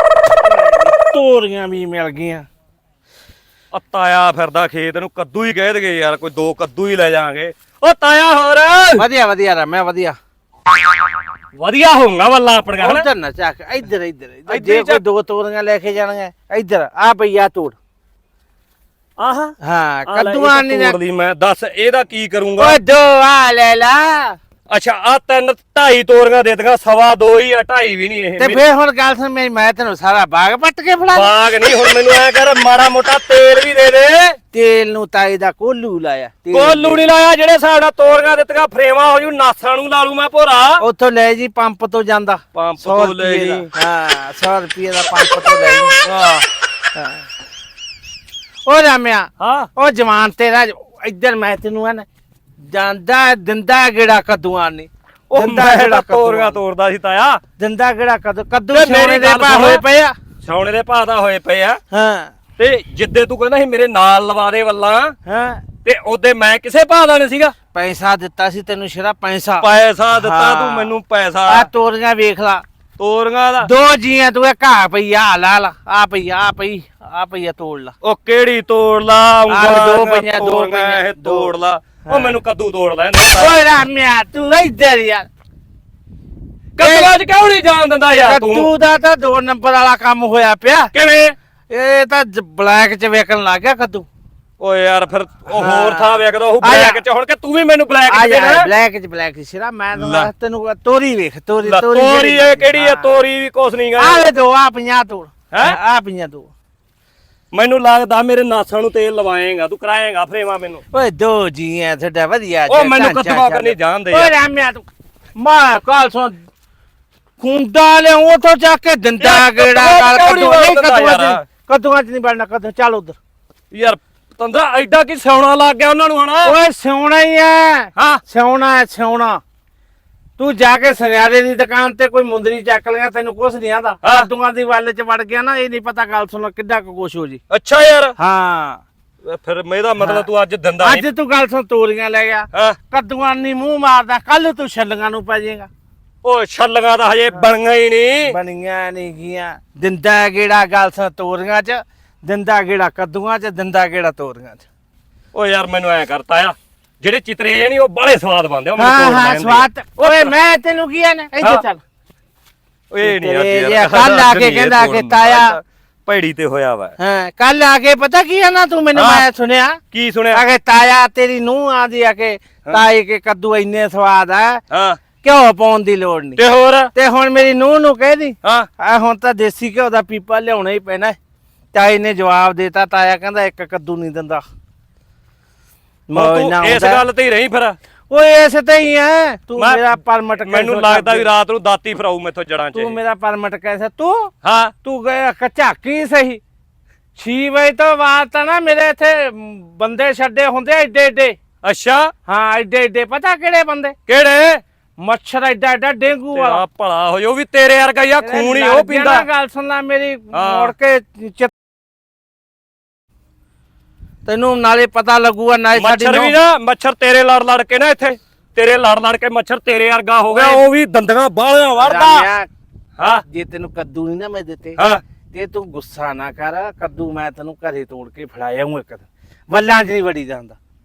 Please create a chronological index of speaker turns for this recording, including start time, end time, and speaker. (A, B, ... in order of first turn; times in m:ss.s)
0:00.4-0:02.4 A
0:03.7-0:09.0 B
0:09.0-0:10.2 A
0:11.6-0:13.1 B
0:12.8-0:17.8 A
0:14.5-0:15.0 B
0:19.2-0:19.6 B
0:19.6-0:21.0 A
0:20.1-0:22.8 B
0:22.6-0:24.4 A
0:24.7-0:28.6 B
0:28.4-0:31.3 A
0:31.1-0:34.4 B
0:34.5-0:37.1 A
0:36.5-0:40.8 B
0:40.8-0:46.0 A
0:42.5-0:43.7 B
0:46.0-0:46.4 B
0:46.9-0:47.2 A
0:48.6-0:52.0 A
0:49.4-0:49.7 B
0:52.7-0:56.6 A
0:55.3-0:57.4 B
0:57.6-1:00.1 A
0:58.7-0:59.8 B
1:00.4-1:01.8 B
1:01.9-1:02.3 A
1:02.6-1:05.2 B
1:05.2-1:05.6 A
1:05.8-1:07.5 B
1:07.7-1:10.9 A
1:09.6-1:11.7 B
1:11.5-1:12.6 A
1:13.0-1:13.7 B
1:13.6-1:17.9 A
1:18.0-1:23.6 B
1:19.5-1:21.5 A
1:22.1-1:22.4 A
1:23.3-1:25.2 A
1:26.8-1:28.7 B
1:26.8-1:27.1 A
1:28.2-1:30.9 A
1:30.9-1:31.3 B
1:31.7-1:34.1 A
1:34.6-1:38.7 B
1:35.5-1:37.0 A
1:38.1-1:43.1 A
1:39.9-1:40.3 B
1:41.6-1:44.3 B
1:44.0-1:46.5 A
1:45.5-1:45.8 B
1:47.5-1:50.8 B
1:50.9-1:56.4 A
1:52.7-1:54.3 B
1:57.4-2:03.2 A
1:59.2-2:01.4 B
2:03.7-2:06.5 B
2:06.4-2:09.4 A
2:08.0-2:08.2 B
2:10.4-2:17.4 A
2:14.0-2:14.3 B
2:17.5-2:18.1 B
2:18.2-2:18.8 A
2:19.2-2:21.1 B
2:20.0-2:20.2 A
2:20.8-2:25.7 A
2:22.5-2:22.8 B
2:26.2-2:28.3 B
2:28.2-2:34.7 A
2:35.3-2:40.3 B
2:38.8-2:41.8 A
2:42.9-2:47.0 B
2:43.0-2:45.6 A
2:47.0-2:49.8 A
2:48.9-2:49.2 B
2:49.9-2:50.4 B
2:50.3-2:54.6 A
2:54.7-2:55.0 B
2:55.2-2:56.4 A
2:56.4-2:56.9 B
2:56.9-3:01.2 A
2:58.4-2:58.7 B
3:01.7-3:04.4 A
3:06.1-3:07.0 A
3:06.1-3:07.8 B
3:08.1-3:11.3 A
3:09.6-3:09.8 B
3:10.4-3:12.9 B
3:12.7-3:14.3 A
3:14.4-3:14.7 B
3:14.8-3:16.4 A
3:17.2-3:21.4 A
3:21.6-3:22.1 B
3:22.2-3:24.0 A
3:24.1-3:24.6 B
3:25.0-3:26.6 A
3:26.3-3:29.2 B
3:28.2-3:31.5 A
3:30.3-3:30.7 B
3:34.2-3:36.4 A
3:35.7-3:42.3 B
3:40.3-3:40.6 A
3:41.8-3:42.5 A
3:43.0-3:43.2 B
3:43.2-3:44.8 A
3:44.8-3:45.0 B
3:45.3-3:50.6 A